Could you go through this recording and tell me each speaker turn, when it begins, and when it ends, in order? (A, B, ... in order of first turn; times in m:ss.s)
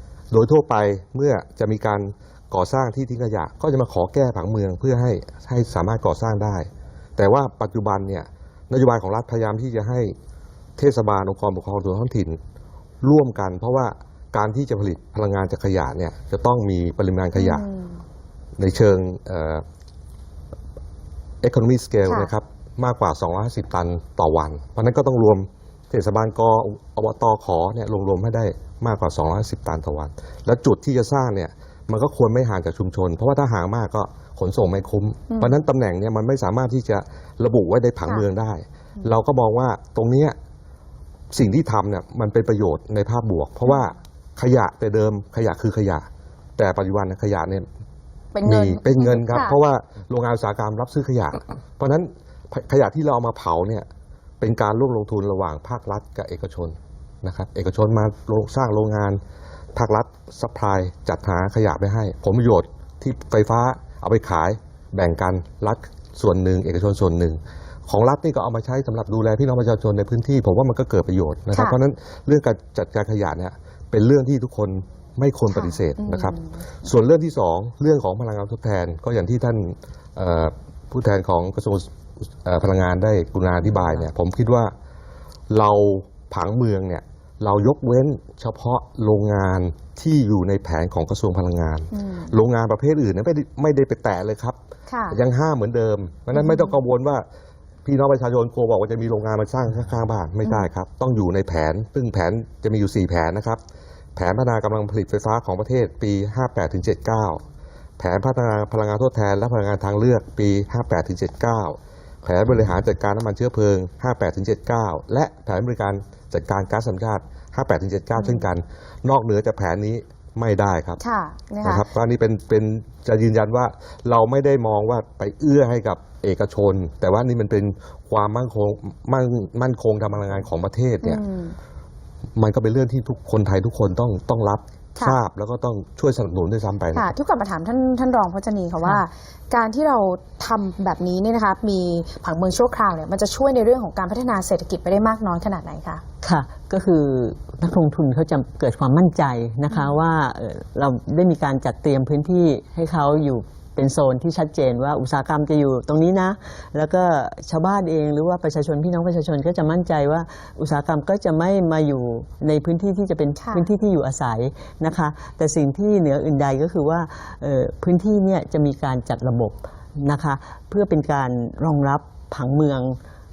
0:00.3-0:10.2 A
0:10.8-0:12.4 A
0:13.0-0:17.6 A
0:17.4-0:18.0 B
0:18.6-0:19.6 A
0:21.4-0:40.4 A
0:35.3-0:35.6 B
0:41.3-0:47.7 A
0:48.3-0:49.6 B
0:48.4-0:53.9 A
0:54.4-0:59.2 A
0:59.8-1:21.9 A
1:15.5-1:16.6 B
1:22.4-1:24.7 A
1:25.5-1:34.6 A
1:31.9-1:32.4 B
1:34.9-1:35.2 B
1:35.1-1:37.3 A
1:36.3-1:36.8 B
1:37.8-1:43.6 A
1:40.4-1:40.7 B
1:44.2-1:47.4 A
1:48.0-2:01.0 A
1:58.2-1:58.5 B
2:01.0-2:01.8 B
2:01.6-2:11.2 A
2:11.0-2:11.6 B
2:12.4-2:17.1 A
2:16.9-2:26.0 B
2:26.2-2:53.0 C
2:29.7-2:30.0 B
2:43.4-2:43.7 B